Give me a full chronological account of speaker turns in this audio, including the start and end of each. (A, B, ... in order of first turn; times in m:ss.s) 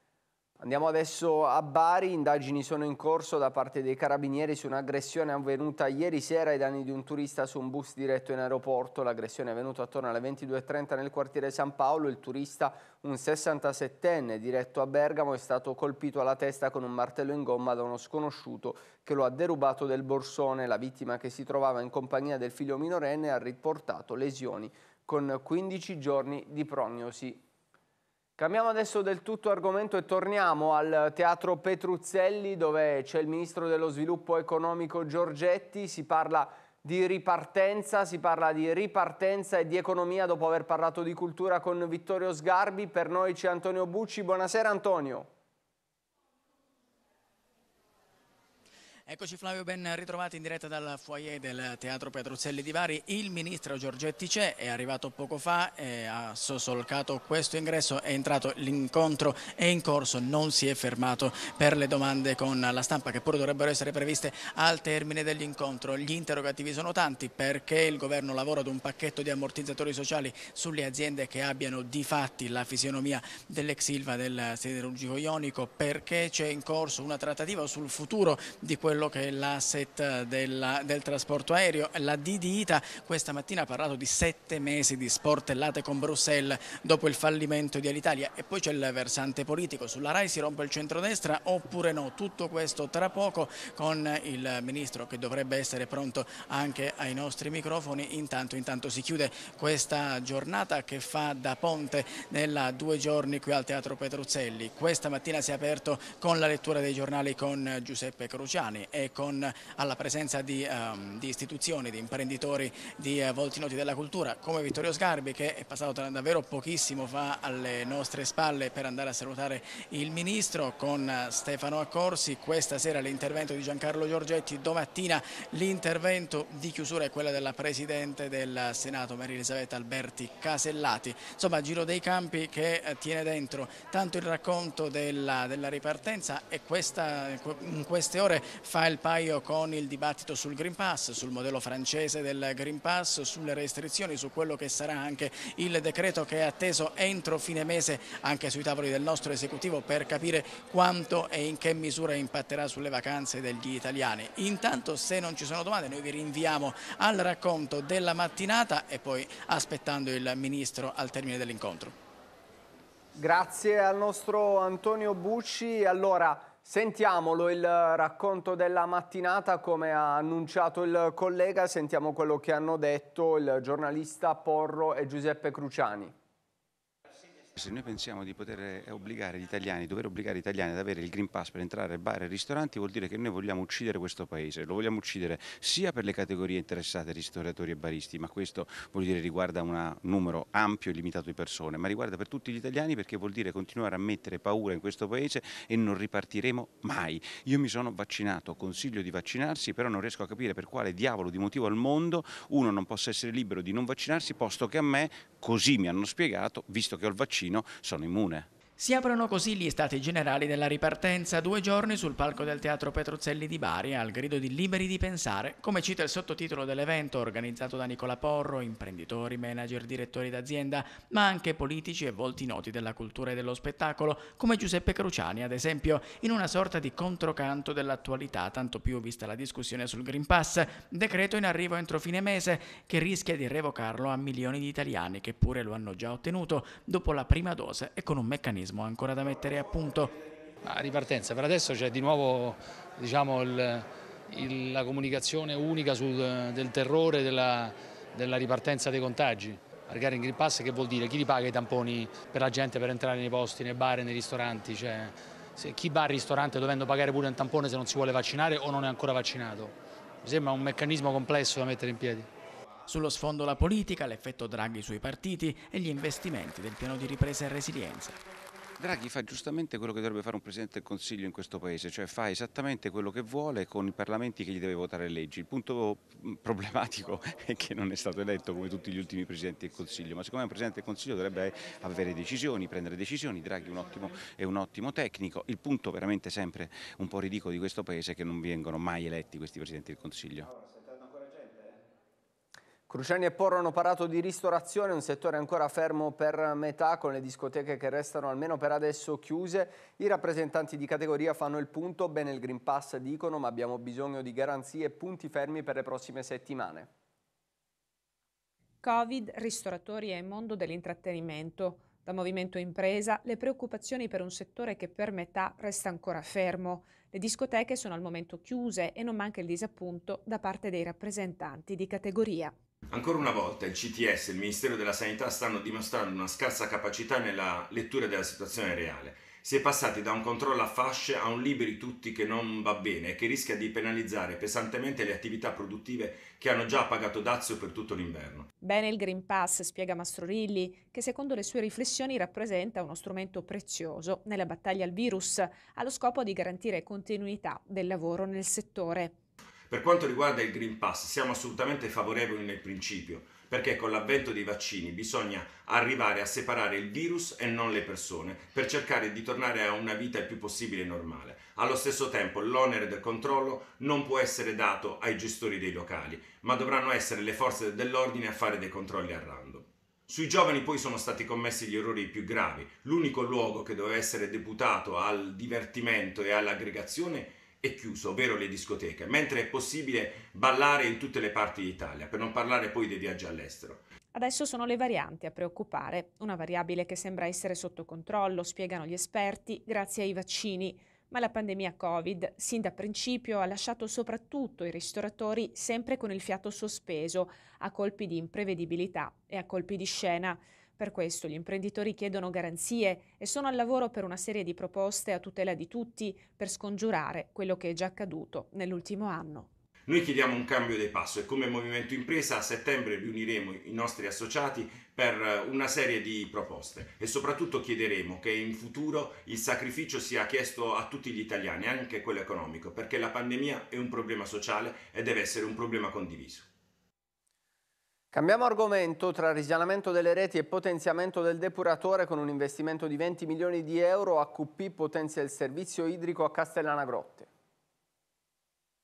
0:00.6-0:27.4 A
0:28.4-0:45.3 A
0:49.1-2:42.0 B
2:43.2-2:56.1 A
2:57.6-3:28.5 C
3:28.8-4:00.2 B
4:00.6-4:22.3 D
4:22.9-4:28.2 B
4:28.8-4:50.5 C
4:52.9-5:06.9 A
5:08.8-5:22.5 E
5:22.9-5:38.5 F
5:38.6-5:49.1 E
5:49.7-6:23.8 F
6:24.1-6:49.5 E
6:49.9-7:06.5 F
7:08.1-7:17.3 A